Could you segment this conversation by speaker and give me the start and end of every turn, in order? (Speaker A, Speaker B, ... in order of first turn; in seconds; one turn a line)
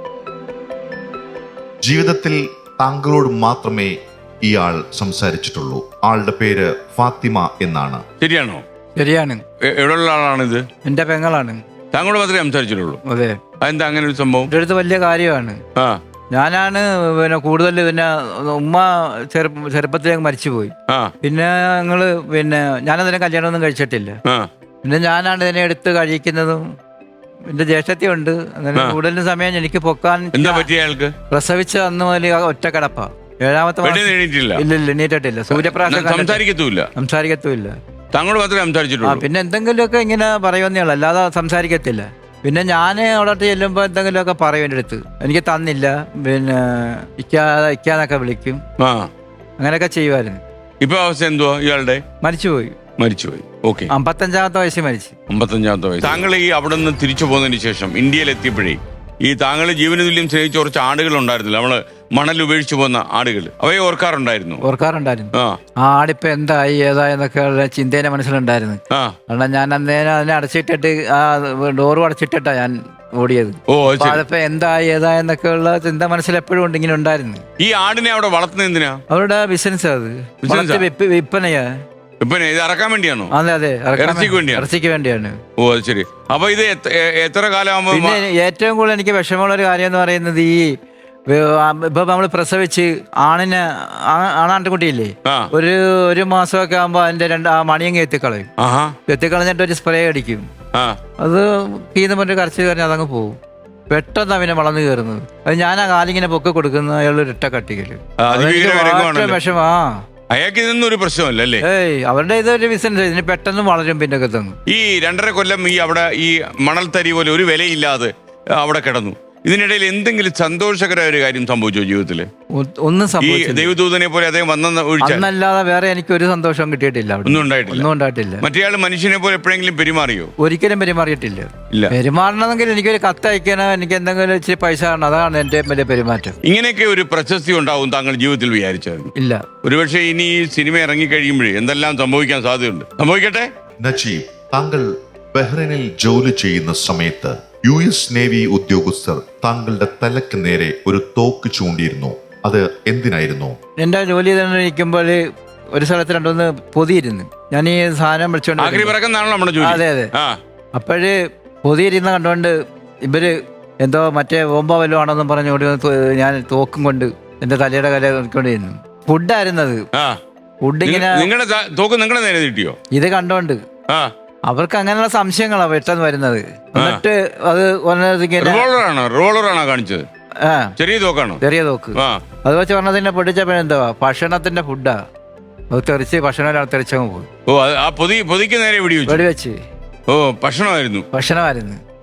Speaker A: 1.8-8.0
Speaker B: 8.2-8.6
Speaker C: 9.0-9.4
Speaker B: 9.6-10.6
Speaker C: 10.8-11.6
Speaker B: 11.9-13.0
Speaker C: 13.1-13.4
Speaker B: 13.6-14.5
Speaker C: 14.5-15.6
Speaker C: 16.3-24.2
Speaker B: 20.9-21.1
Speaker C: 24.8-26.6
Speaker C: 27.5-30.7
Speaker B: 30.3-31.1
Speaker C: 31.3-36.4
Speaker B: 33.8-34.6
Speaker B: 35.5-36.9
Speaker C: 37.0-37.8
Speaker B: 38.1-39.2
Speaker C: 39.0-48.6
Speaker B: 48.8-49.1
Speaker C: 49.6-50.4
Speaker B: 50.8-52.0
Speaker C: 52.2-52.8
Speaker B: 53.0-53.9
Speaker C: 53.9-55.1
Speaker B: 55.3-64.6
Speaker C: 64.6-77.5
Speaker B: 73.7-74.2
Speaker B: 77.6-79.0
Speaker C: 79.1-81.7
Speaker B: 80.4-80.8
Speaker B: 82.2-83.3
Speaker C: 83.3-85.4
Speaker B: 84.0-84.7
Speaker B: 85.6-88.2
Speaker C: 87.9-90.8
Speaker C: 91.3-98.5
Speaker B: 98.6-99.0
Speaker C: 99.1-100.5
Speaker C: 101.2-103.4
Speaker C: 103.9-110.0
Speaker B: 108.2-109.4
Speaker B: 110.3-111.6
Speaker C: 111.6-114.6
Speaker B: 114.7-122.3
Speaker C: 122.5-123.8
Speaker B: 123.2-125.3
Speaker C: 125.0-128.4
Speaker B: 127.2-127.9
Speaker B: 128.4-130.3
Speaker C: 130.4-136.4
Speaker B: 136.4-139.1
Speaker C: 139.2-139.5
Speaker B: 139.6-143.5
Speaker A: 143.8-153.6
Speaker C: 153.8-155.2
Speaker C: 155.8-158.9
Speaker B: 158.6-160.4
Speaker C: 159.6-160.1
Speaker C: 160.7-169.8
Speaker B: 169.9-170.2
Speaker C: 170.6-171.3
Speaker B: 170.8-172.8
Speaker C: 172.9-173.6
Speaker C: 174.5-178.7
Speaker B: 176.8-177.0
Speaker B: 178.4-180.1
Speaker C: 180.4-180.7
Speaker B: 180.8-181.4
Speaker C: 181.4-185.0
Speaker B: 182.0-182.2
Speaker C: 185.7-187.3
Speaker B: 187.5-189.2
Speaker C: 189.1-189.6
Speaker B: 190.1-191.1
Speaker C: 191.1-191.8